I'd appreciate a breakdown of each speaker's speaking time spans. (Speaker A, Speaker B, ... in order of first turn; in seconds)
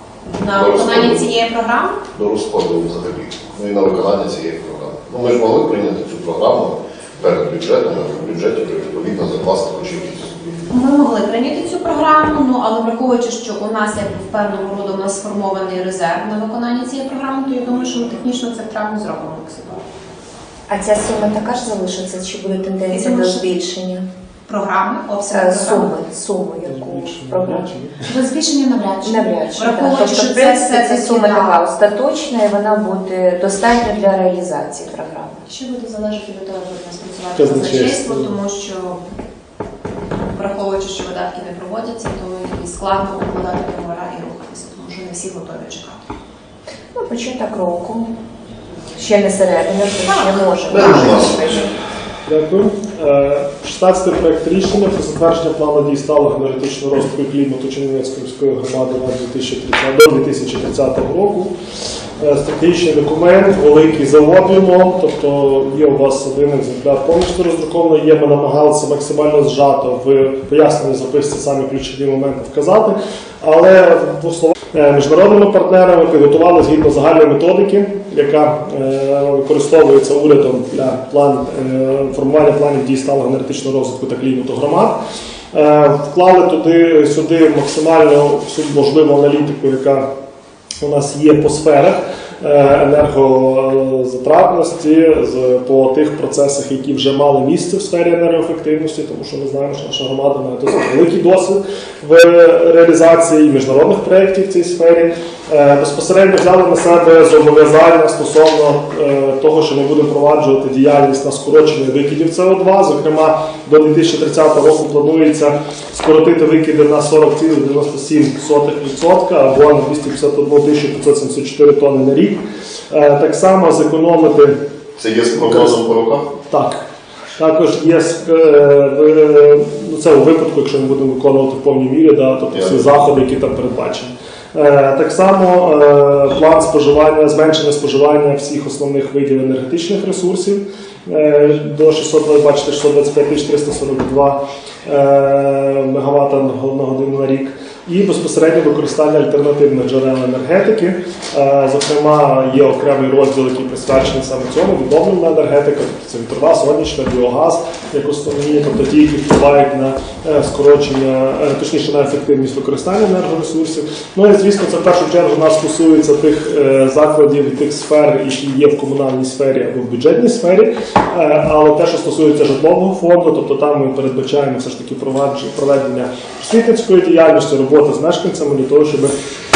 Speaker A: 0.3-2.0, 10.7-19.8, 22.9-23.5, 24.5-25.9, 28.1-31.6, 35.5-39.0, 40.3-46.0, 50.0-51.7
Speaker B: 0.5-1.3, 2.1-10.7, 50.7-51.7, 125.0-126.3, 132.5-132.9
Speaker C: 20.7-24.1, 25.3-27.7, 29.0-35.4, 47.0-48.1, 49.0-51.7
Speaker D: 26.6-28.1, 37.4-38.4, 52.3-61.5, 62.2-85.0, 85.5-90.1, 90.8-124.6, 125.3-125.8, 126.5-126.8, 127.4-179.2